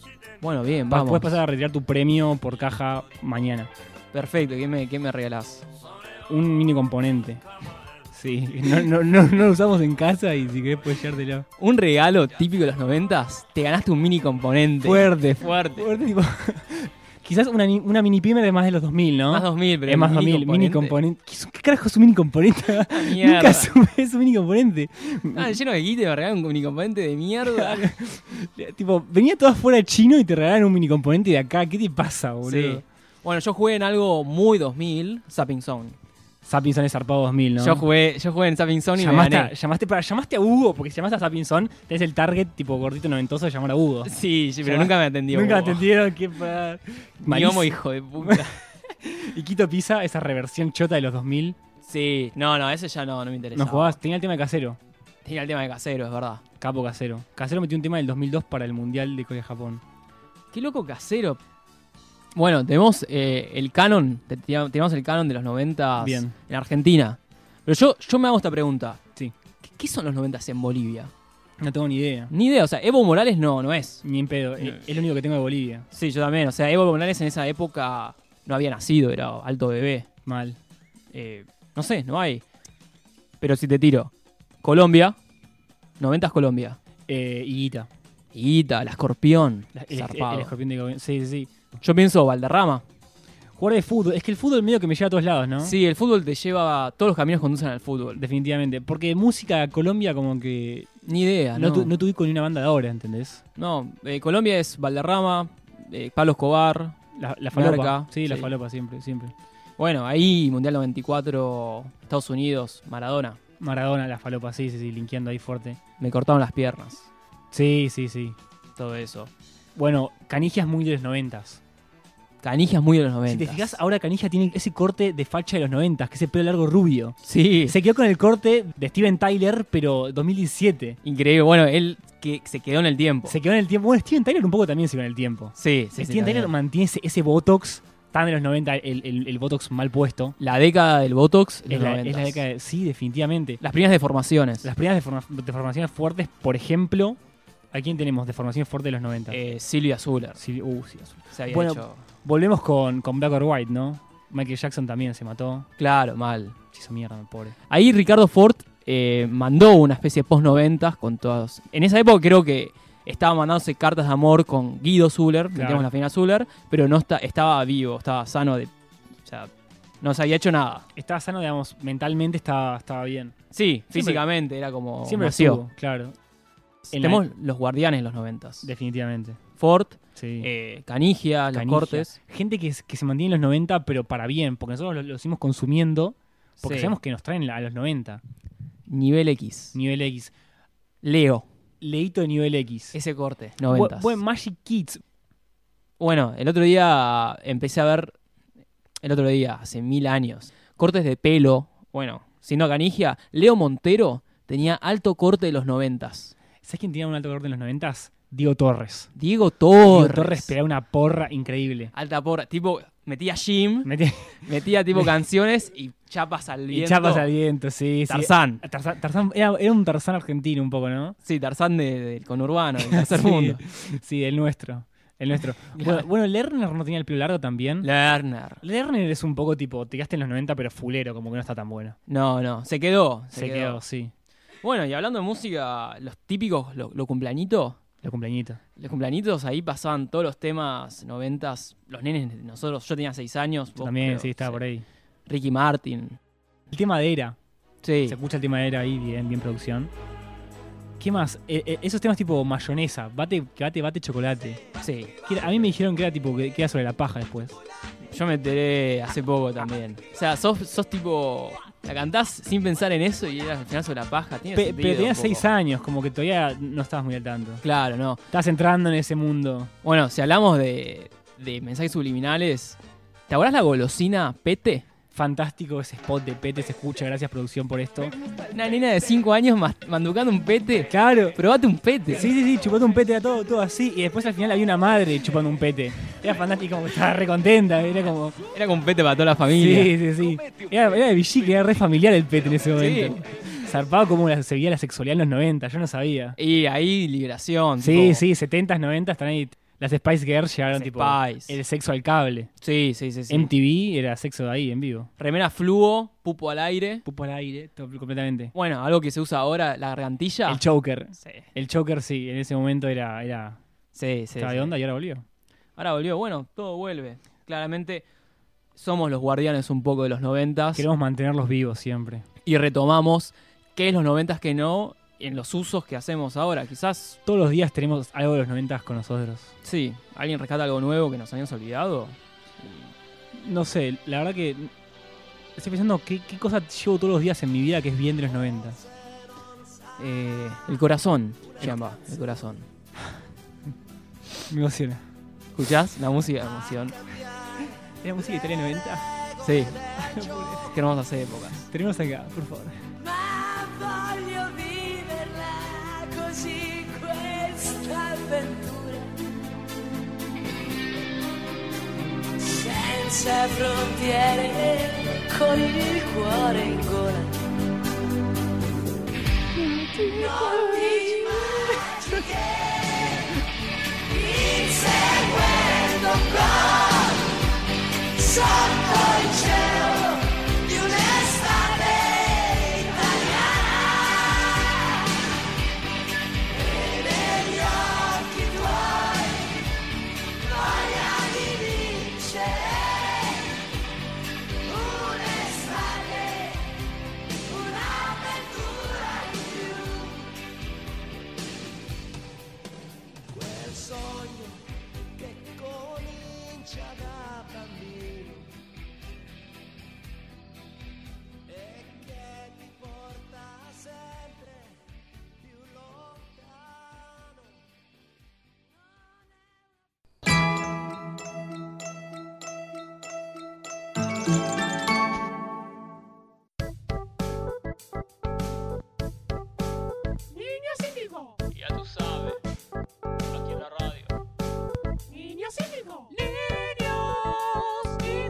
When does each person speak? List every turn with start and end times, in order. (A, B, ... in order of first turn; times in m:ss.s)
0:00.4-0:01.4 A
0:00.9-0:03.7 B
0:04.1-0:05.6 A
0:06.3-0:07.4 B
0:08.1-0:11.4 B
0:11.6-0:16.0 A
0:14.8-0:25.6 B
0:19.3-0:21.0 A
0:22.9-0:23.7 A
0:25.3-0:27.9 A
0:27.4-0:32.8 B
0:32.4-0:36.0 A
0:36.4-0:37.8 B
0:37.6-0:39.5 A
0:39.0-0:44.1 B
0:44.0-0:45.9 A
0:44.6-0:51.6 B
0:47.2-0:48.6 A
0:51.8-0:54.0 A
0:53.5-0:54.8 B
0:55.2-0:56.4 A
0:56.6-0:59.8 B
1:00.5-1:01.4 A
1:02.3-1:09.0 A
1:06.0-1:06.3 B
1:09.6-1:11.1 A
1:11.6-1:12.3 B
1:12.3-1:14.0 A
1:14.0-1:15.9 B
1:14.6-1:14.8 A
1:15.9-1:20.1 A
1:20.2-1:20.6 B
1:21.1-1:22.4 A
1:23.4-1:25.2 A
1:26.0-1:26.8 A
1:27.1-1:27.9 B
1:28.3-1:30.5 A
1:29.7-1:31.5 B
1:31.8-1:32.8 A
1:33.6-1:35.8 B
1:35.6-1:38.2 A
1:38.2-1:40.9 B
1:41.0-1:41.9 A
1:41.5-1:43.4 B
1:43.6-1:47.0 A
1:47.1-1:49.3 B
1:47.5-1:48.5 A
1:49.8-1:53.4 A
1:53.6-1:55.8 B
1:56.0-1:57.1 A
1:57.5-1:58.4 B
1:58.8-1:59.3 A
1:59.8-2:01.6 B
2:02.4-2:03.8 A
2:03.3-2:11.0 B
2:07.2-2:07.8 A
2:11.0-2:13.4 A
2:13.2-2:20.4 B
2:15.6-2:16.5 A
2:20.4-2:22.4 A
2:21.7-2:23.6 B
2:23.6-2:24.7 A
2:24.6-2:27.2 B
2:27.7-2:29.4 B
2:29.3-2:30.4 A
2:30.4-2:35.7 B
2:31.3-2:32.0 A
2:35.8-2:36.6 A
2:36.7-2:37.6 B
2:37.7-2:48.7 A
2:45.5-2:45.9 B
2:49.2-2:50.9 A
2:51.0-2:53.3 B
2:53.5-2:55.6 A
2:53.9-2:54.2 B
2:55.0-2:56.1 B
2:56.9-2:58.7 A
2:56.9-2:57.2 B
2:58.6-2:59.4 B
2:59.6-3:02.2 A
3:00.2-3:00.5 B
3:01.5-3:08.2 B
3:06.6-3:07.0 A
3:08.9-3:09.8 A
3:09.7-3:10.3 B
3:11.0-3:11.5 A
3:11.8-3:13.0 B
3:12.9-3:14.2 A
3:13.6-3:15.0 B
3:16.0-3:18.1 A
3:19.0-3:26.3 A
3:26.6-3:29.1 B
3:29.1-3:30.5 A
3:29.8-3:31.9 B
3:31.9-3:33.9 A
3:33.8-3:35.1 B
3:34.4-3:37.3 A
3:36.7-3:41.2 B
3:38.1-3:38.6 A
3:41.2-3:43.8 A
3:42.8-3:47.9 B
3:45.7-3:46.1 A
3:47.8-3:48.6 A
3:48.6-3:52.0 B
3:52.1-3:53.8 A
3:53.3-3:54.1 B
3:54.6-3:57.8 A
3:58.0-3:58.6 B
3:58.8-4:04.6 A
4:03.8-4:04.8 B
4:05.3-4:06.2 A
4:06.7-4:07.4 B
4:07.8-4:08.2 A
4:08.0-4:09.9 B
4:11.0-4:14.6 B
4:14.8-4:15.1 A
4:15.2-4:17.6 B
4:18.1-4:25.5 A
4:24.5-4:27.6 B
4:27.6-4:28.2 A
4:28.3-4:29.7 B
4:29.8-4:34.8 A
4:35.1-4:38.1 B
4:38.5-4:42.3 A
4:40.9-4:41.4 B
4:42.1-4:48.4 B
4:48.5-4:49.9 A
4:49.5-4:56.4 B
4:52.7-4:53.2 A
4:56.4-4:58.2 A
4:57.8-5:02.5 B
5:00.7-5:01.6 A
5:02.6-5:03.5 A
5:03.3-5:05.1 B
5:05.2-5:07.0 A
5:07.0-5:08.5 B
5:08.5-5:10.6 A
5:10.4-5:13.6 B
5:11.2-5:11.5 A
5:13.9-5:14.8 A
5:14.4-5:15.2 B
5:15.8-5:18.0 A
5:18.7-5:20.9 A
5:20.8-5:22.2 B
5:22.4-5:27.2 A
5:27.2-5:29.5 B
5:29.6-5:32.8 A
5:33.3-5:34.7 B
5:35.6-5:38.8 B
5:40.0-5:42.7 A
5:44.5-5:45.0 B
5:45.5-5:47.0 A
5:48.0-5:49.1 B
5:49.4-5:49.8 A
5:49.9-5:50.8 B
5:50.6-5:51.7 A
5:51.6-5:52.8 B
5:53.0-5:59.1 C
6:02.4-6:07.4 C
6:10.0-6:10.4 B
6:10.0-6:13.3 C
6:14.1-6:17.3 C
6:18.1-6:24.9 C
6:26.6-6:29.6 C
6:30.5-6:33.5 C
6:34.7-6:36.7 C
6:37.5-6:40.3 C
6:43.3-6:44.6 C
6:45.2-6:48.5 C
6:51.5-6:54.7 C
6:55.7-6:56.4 C
7:11.5-7:12.4 A
7:13.3-7:14.1 A